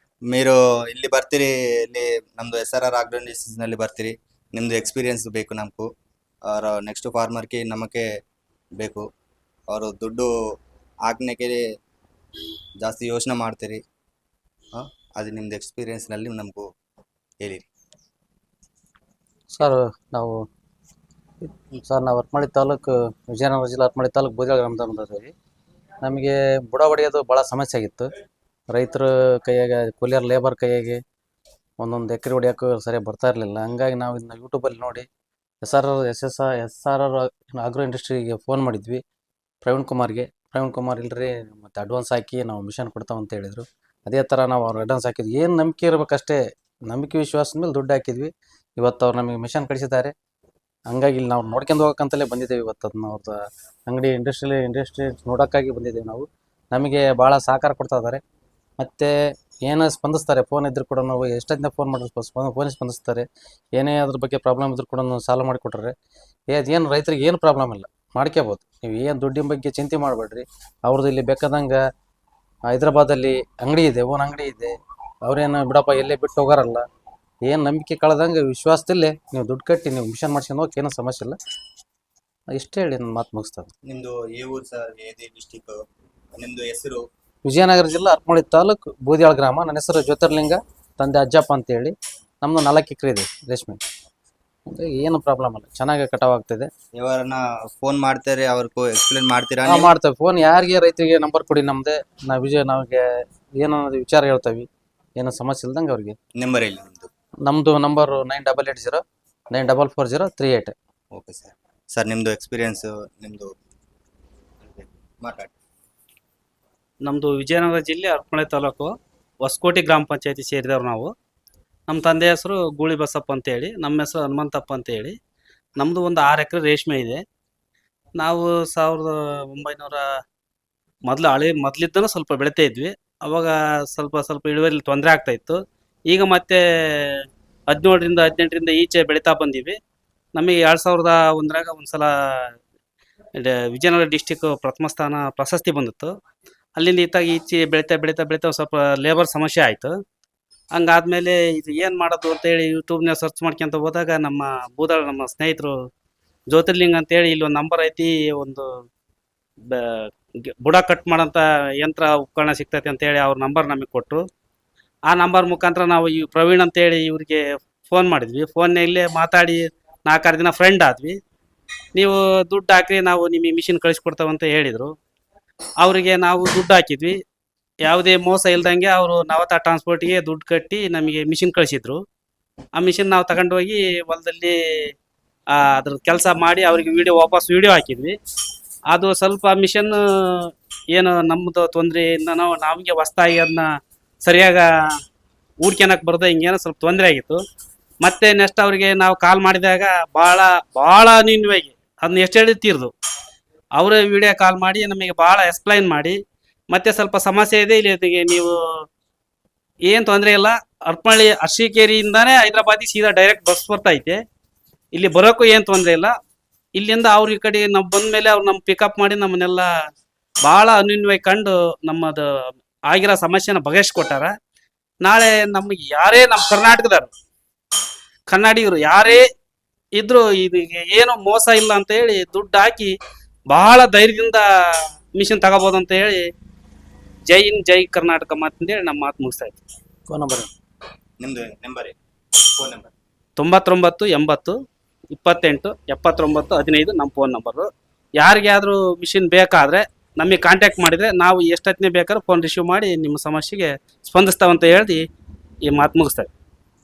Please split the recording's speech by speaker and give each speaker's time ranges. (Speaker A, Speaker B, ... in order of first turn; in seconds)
Speaker A: 0.3-5.9, 6.5-8.1, 8.8-9.0, 9.7-10.3, 11.1-11.6, 12.8-13.8, 14.8-16.6, 17.4-17.7, 83.9-85.8, 86.3-87.0, 97.0-99.9, 106.4-107.1, 111.2-113.5, 114.7-115.5, 241.2-242.9
Speaker B: 19.6-20.4, 21.8-25.3, 26.1-28.1, 28.7-31.0, 31.8-35.0, 35.6-39.0, 39.6-50.1, 50.9-58.2, 58.8-59.1, 59.7-65.9, 66.5-71.8, 72.7-74.7, 75.3-76.8, 77.5-81.4, 82.5-83.7, 87.5-93.8, 94.7-96.7, 99.7-103.0, 103.6-104.7, 105.2-106.2, 107.5-109.0, 109.5-110.8, 240.1-240.5
Speaker C: 117.1-118.9, 119.4-121.1, 121.9-125.2, 125.8-127.2, 128.2-130.0, 131.1-139.8, 140.3-142.5, 143.4-146.2, 146.8-149.9, 150.8-155.8, 156.5-158.7, 159.7-164.2, 165.1-171.2, 171.9-174.9, 175.8-177.2, 177.8-182.0, 182.8-184.9, 185.5-188.2, 188.9-193.7, 194.2-194.7, 195.6-197.4, 198.0-202.9, 203.8-206.2, 206.7-208.6, 209.9-214.2, 214.9-216.1, 216.8-219.7, 220.5-224.3, 225.0-227.1, 228.3-229.2, 230.0-232.9, 233.5-236.2, 237.3-239.6, 243.4-244.6, 245.1-247.7, 248.2-255.0, 255.7-256.3